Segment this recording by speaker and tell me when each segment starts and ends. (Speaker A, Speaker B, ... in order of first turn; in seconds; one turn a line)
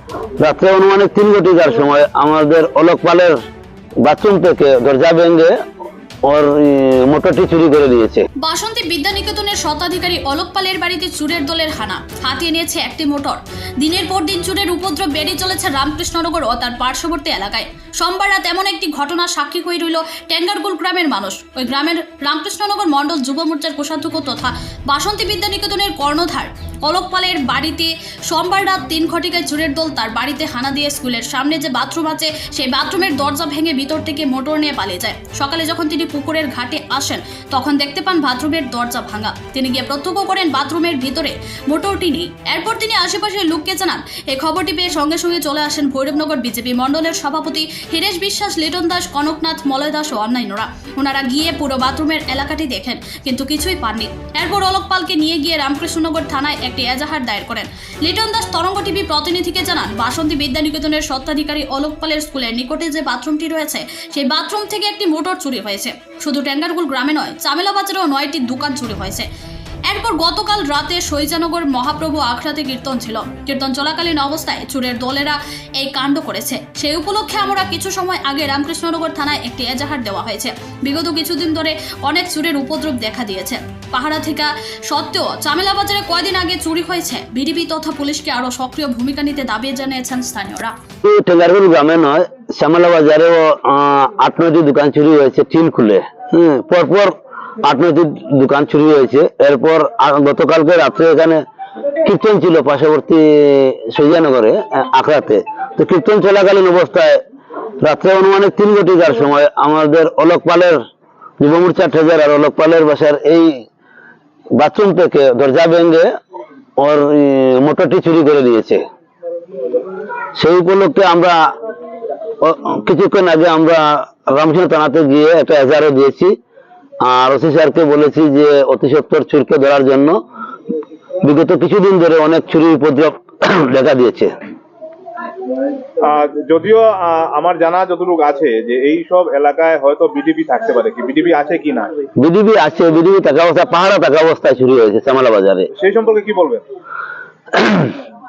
Speaker A: 0.4-3.4
Speaker A: 4.0-5.6
Speaker A: 6.3-8.2
Speaker B: 8.4-69.3
Speaker B: 69.9-90.7
Speaker A: 91.0-101.4
Speaker A: 102.0-107.2
Speaker A: 107.8-110.8
Speaker A: 111.4-113.6
Speaker A: 114.6-116.1
Speaker A: 116.8-118.8
Speaker A: 120.4-121.4
Speaker A: 122.4-126.3
Speaker A: 127.0-130.2
Speaker A: 131.2-134.3
Speaker C: 136.0-141.9
Speaker A: 142.2-145.7
Speaker C: 145.7-146.6
Speaker A: 147.6-147.9